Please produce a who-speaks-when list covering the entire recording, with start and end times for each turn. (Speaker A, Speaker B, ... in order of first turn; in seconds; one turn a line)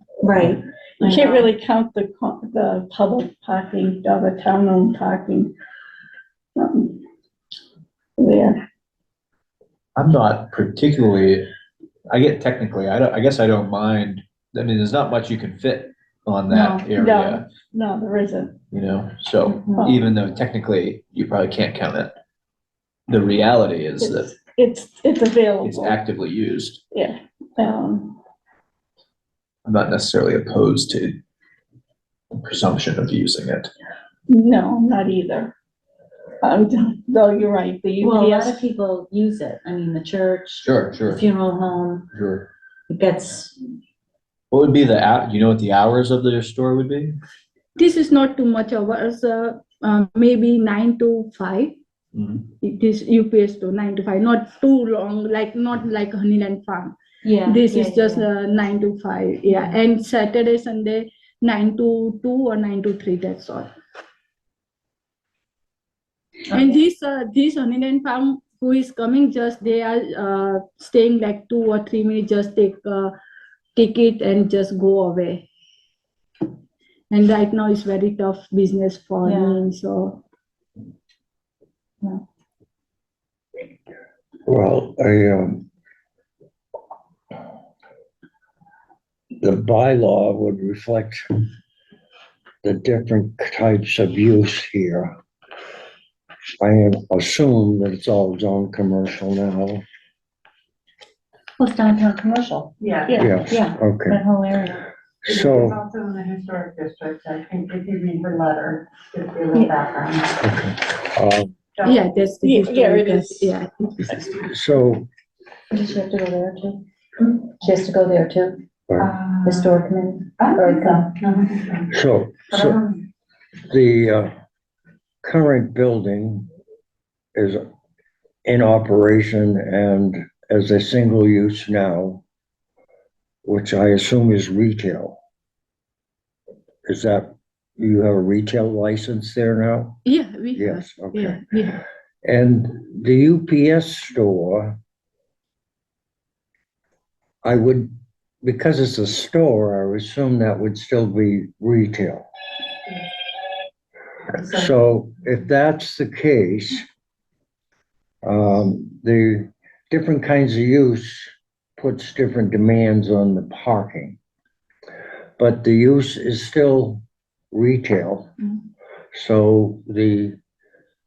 Speaker A: 0.2-1.5
Speaker B: 0.5-5.5
Speaker B: 6.5-7.0
Speaker B: 8.2-8.6
Speaker C: 9.9-11.4
Speaker C: 12.1-17.4
Speaker A: 16.5-16.8
Speaker B: 16.9-18.6
Speaker C: 18.7-22.1
Speaker A: 19.4-19.9
Speaker B: 19.7-20.0
Speaker C: 23.1-24.4
Speaker B: 24.0-26.0
Speaker C: 25.6-26.8
Speaker B: 26.9-28.2
Speaker C: 29.6-31.2
Speaker C: 32.3-33.7
Speaker B: 34.3-35.5
Speaker B: 36.4-38.6
Speaker A: 38.0-42.1
Speaker C: 40.6-41.2
Speaker C: 42.1-42.5
Speaker A: 42.9-43.6
Speaker C: 44.5-47.2
Speaker D: 47.8-51.8
Speaker C: 52.1-52.5
Speaker D: 52.6-63.7
Speaker A: 57.2-58.3
Speaker A: 59.5-59.8
Speaker D: 66.5-73.1
Speaker D: 73.7-75.5
Speaker D: 77.1-80.2
Speaker A: 79.2-79.6
Speaker E: 84.5-85.7
Speaker E: 89.4-91.4
Speaker E: 92.6-95.1
Speaker E: 96.6-99.8
Speaker A: 101.6-102.7
Speaker F: 102.8-103.3
Speaker B: 103.1-103.3
Speaker E: 103.2-104.2
Speaker A: 103.3-104.9
Speaker E: 105.2-105.8
Speaker F: 105.2-110.4
Speaker E: 110.4-111.5
Speaker F: 111.7-112.1
Speaker D: 111.8-114.2
Speaker B: 112.4-113.5
Speaker E: 114.3-115.1
Speaker A: 115.7-118.6
Speaker F: 119.0-119.7
Speaker A: 119.4-121.0
Speaker F: 120.4-121.9
Speaker E: 121.9-122.8
Speaker F: 122.5-123.0
Speaker E: 123.7-124.3
Speaker E: 125.2-126.5
Speaker E: 127.3-127.6
Speaker E: 128.4-132.2
Speaker E: 133.4-135.2
Speaker E: 136.8-140.0
Speaker D: 140.0-141.8
Speaker E: 140.5-141.4
Speaker E: 142.2-144.8
Speaker E: 147.4-147.9
Speaker E: 148.4-152.3
Speaker E: 154.3-156.8
Speaker E: 158.2-164.2
Speaker E: 165.4-168.3
Speaker E: 169.1-170.4